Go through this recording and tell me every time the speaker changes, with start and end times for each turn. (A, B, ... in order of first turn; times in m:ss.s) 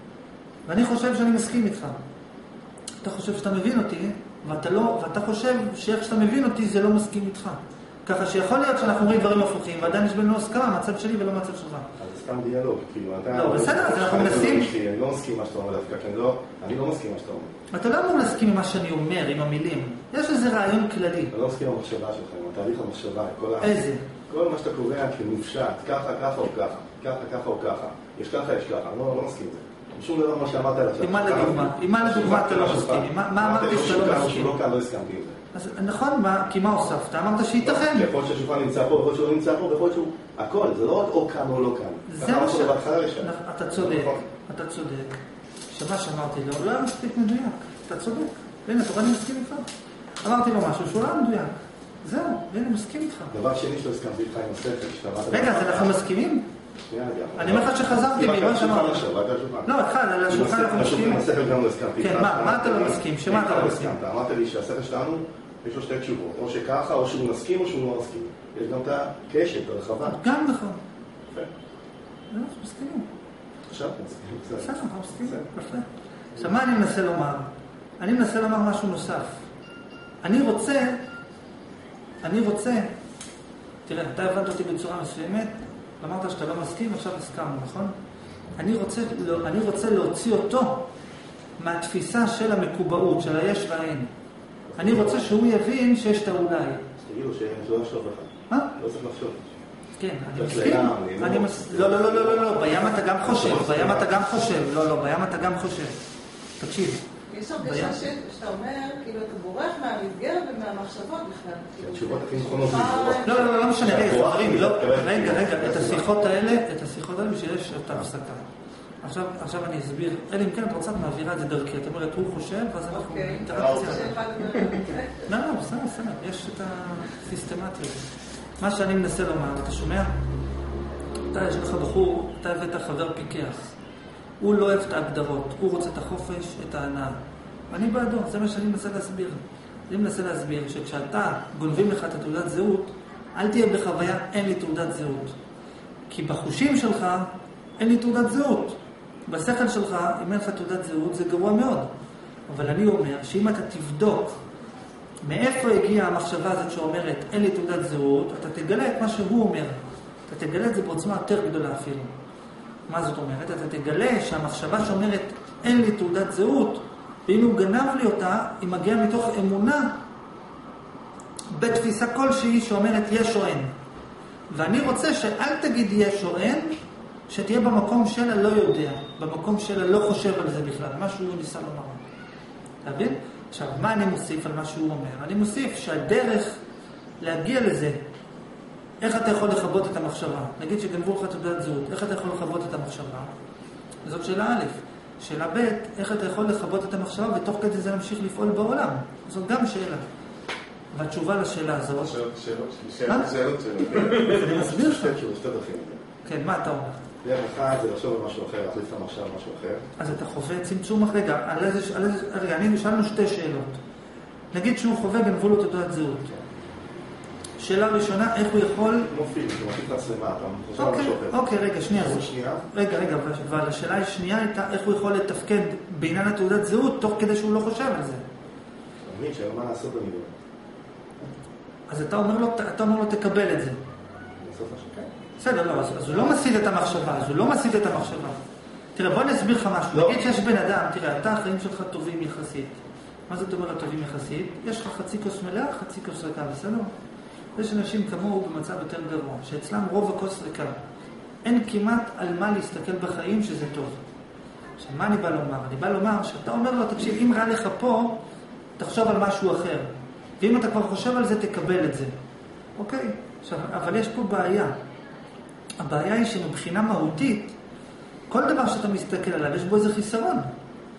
0:00.7-0:02.0 A
0:03.0-0:11.9 A
0:12.0-0:17.5 B
0:13.3-0:14.7 A
0:17.7-0:21.3 A
0:21.3-0:35.4 B
0:23.6-0:24.1 A
0:31.0-0:34.6 A
0:35.5-0:38.1 A
0:37.6-0:44.2 B
0:42.1-0:49.6 A
0:50.2-0:53.4 A
0:53.3-0:56.0 B
0:55.3-0:56.5 A
0:56.9-0:59.7 B
0:57.4-0:59.1 A
0:59.6-1:01.3 A
1:00.3-1:10.2 B
1:02.0-1:04.0 A
1:10.0-1:10.8 A
1:12.3-1:13.1 A
1:13.7-1:15.5 B
1:14.6-1:19.4 A
1:20.2-1:21.0 A
1:22.2-1:22.9 A
1:23.9-1:28.0 A
1:28.6-1:30.9 A
1:31.6-1:34.1 A
1:34.7-1:35.3 B
1:34.8-1:36.8 A
1:37.0-1:39.4 B
1:40.0-1:46.0 A
1:40.3-1:44.1 B
1:46.6-1:48.0 A
1:47.3-1:53.5 C
1:51.8-1:56.3 B
1:53.2-1:58.4 A
1:59.0-2:04.2 A
2:02.9-2:05.2 C
2:05.2-2:08.0 A
2:08.6-2:10.1 A
2:11.3-2:13.7 A
2:14.4-2:17.2 A
2:17.7-2:25.4 A
2:26.1-2:31.9 A
2:32.5-2:34.4 A
2:35.2-2:42.1 A
2:42.9-2:49.9 A
2:51.5-2:53.7 A
2:54.5-2:56.8 A
2:57.3-3:02.0 A
3:02.8-3:06.6 A
3:07.2-3:08.0 A
3:09.0-3:13.3 A
3:14.0-3:20.0 A
3:20.9-3:22.2 A
3:22.0-3:24.6 D
3:23.1-3:25.2 A
3:24.4-3:26.0 B
3:26.2-3:27.0 A
3:27.2-3:29.9 B
3:30.0-3:33.8 A
3:34.5-3:36.3 A
3:37.6-3:39.1 A
3:39.0-3:42.6 B
3:40.8-3:48.2 A
3:49.0-3:50.3 B
3:51.9-3:53.8 A
3:54.4-3:55.1 B
3:55.4-3:58.4 A
3:58.9-4:02.8 A
3:59.9-4:00.2 B
4:03.3-4:06.9 A
4:07.6-4:10.8 A
4:11.4-4:14.0 A
4:14.8-4:18.2 A
4:18.8-4:22.1 A
4:22.8-4:24.7 A
4:25.8-4:27.6 A
4:28.3-4:30.5 A